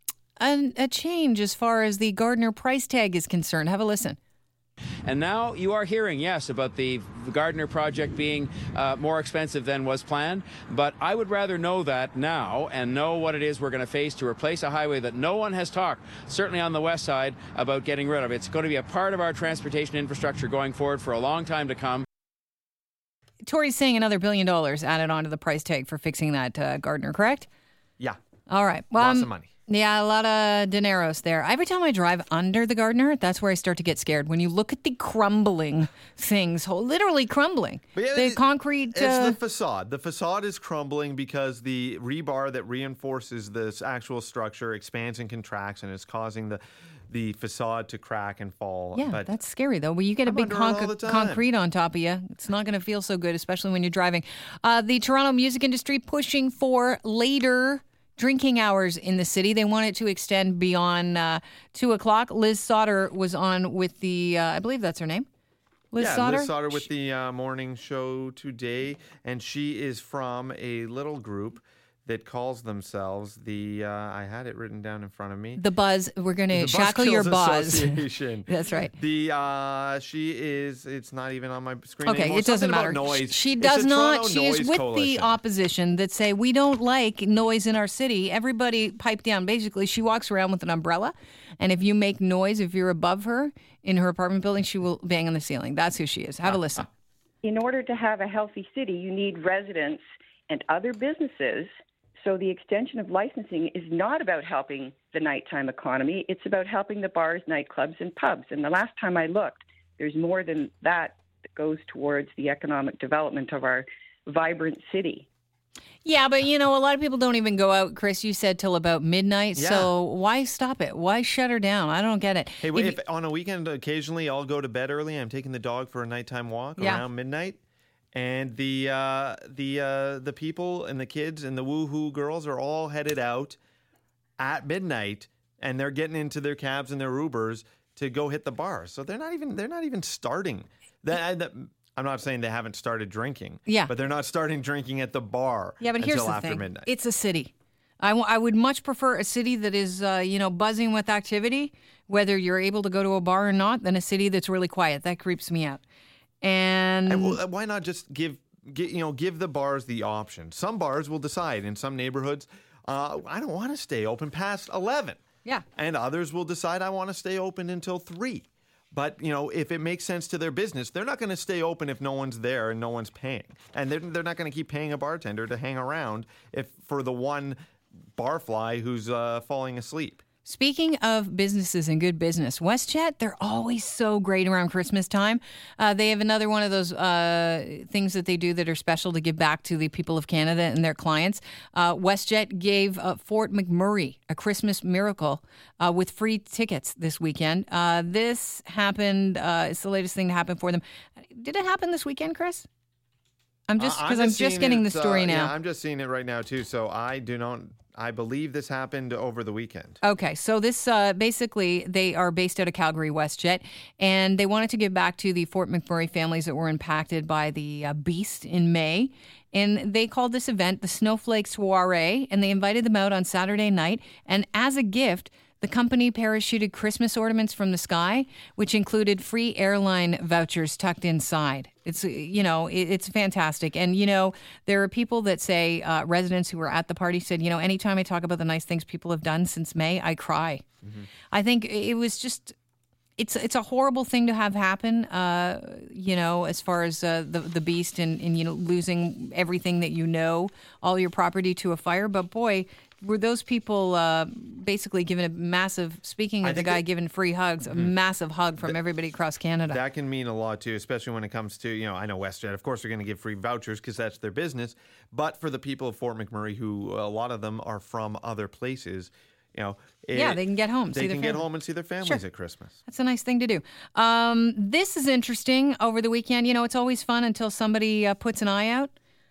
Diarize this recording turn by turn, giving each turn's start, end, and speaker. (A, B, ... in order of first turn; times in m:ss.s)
0:00.4-0:04.2 A
0:05.0-0:22.0 B
0:23.4-0:27.5 A
0:28.5-0:39.4 A
0:28.9-0:29.5 C
0:37.9-0:38.4 C
0:38.9-0:49.3 C
0:49.0-1:05.3 A
0:50.2-0:51.4 C
1:05.9-1:06.8 A
1:06.0-1:15.6 C
1:15.6-1:18.9 A
1:16.5-1:25.4 C
1:22.0-1:36.9 A
1:37.4-1:41.7 D
1:42.2-1:55.3 D
1:56.0-2:03.0 A
1:59.6-1:59.9 C
2:02.6-2:07.6 C
2:06.8-2:07.0 A
2:08.1-2:13.6 C
2:14.4-2:26.9 C
2:25.8-2:35.8 A
2:36.4-2:37.4 A
2:37.1-2:45.2 C
2:45.7-2:57.6 C
2:58.2-3:00.2 C
3:00.4-3:22.7 A
3:23.7-3:25.5 A
3:23.8-3:30.0 C
3:30.0-4:00.6 A
4:01.3-4:02.6 A
4:03.2-4:19.8 A
4:16.4-4:16.8 C
4:19.7-4:32.8 C
4:30.1-4:31.4 A
4:32.8-4:38.9 A